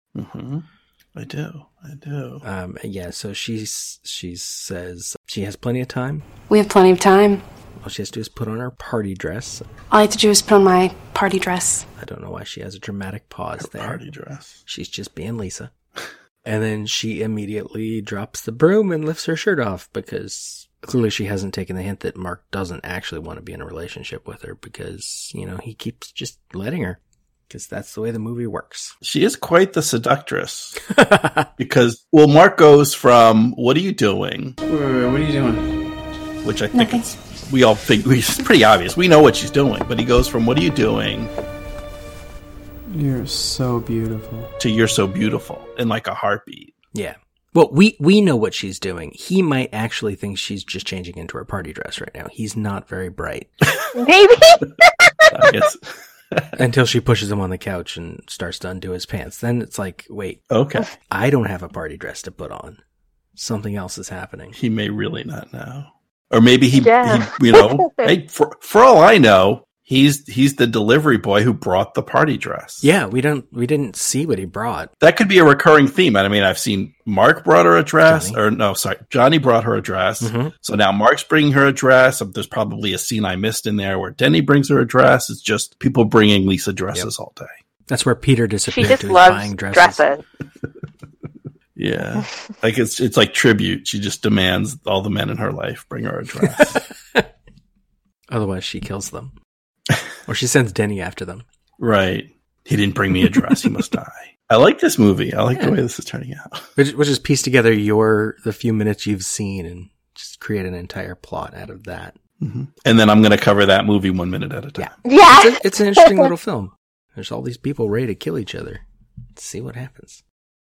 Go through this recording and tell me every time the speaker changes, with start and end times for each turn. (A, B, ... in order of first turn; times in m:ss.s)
0:00.1-0:00.6 A
0:01.2-0:02.4 A
0:02.4-0:06.2 B
0:06.5-0:07.4 C
0:07.8-0:09.6 B
0:09.9-0:11.8 C
0:12.0-0:14.0 B
0:13.6-0:14.6 A
0:14.6-0:15.7 B
0:16.4-0:28.9 B
0:29.0-0:30.8 A
0:30.9-0:31.5 B
0:31.6-0:34.6 A
0:34.7-0:35.6 D
0:36.4-0:41.3 A
0:36.7-0:37.0 C
0:42.9-0:44.5 D
0:44.6-0:46.7 A
0:46.9-0:53.5 B
0:53.9-0:55.2 E
0:55.3-0:56.6 A
0:56.6-1:00.4 B
1:00.5-1:00.9 A
1:01.1-1:02.8 B
1:03.3-1:04.6 B
1:04.5-1:12.9 A
1:06.7-1:08.1 E
1:12.8-1:14.9 B
1:15.0-1:27.5 A
1:18.0-1:18.4 B
1:20.2-1:20.5 B
1:27.9-1:30.0 B
1:28.7-1:30.2 E
1:31.8-1:36.8 A
1:36.6-1:37.2 B
1:38.3-1:39.3 B
1:40.2-1:41.4 B
1:41.8-1:46.6 A
1:46.8-1:52.1 B
1:52.4-1:55.0 A
1:54.8-1:58.8 B
1:55.0-1:56.2 E
1:59.3-2:00.2 B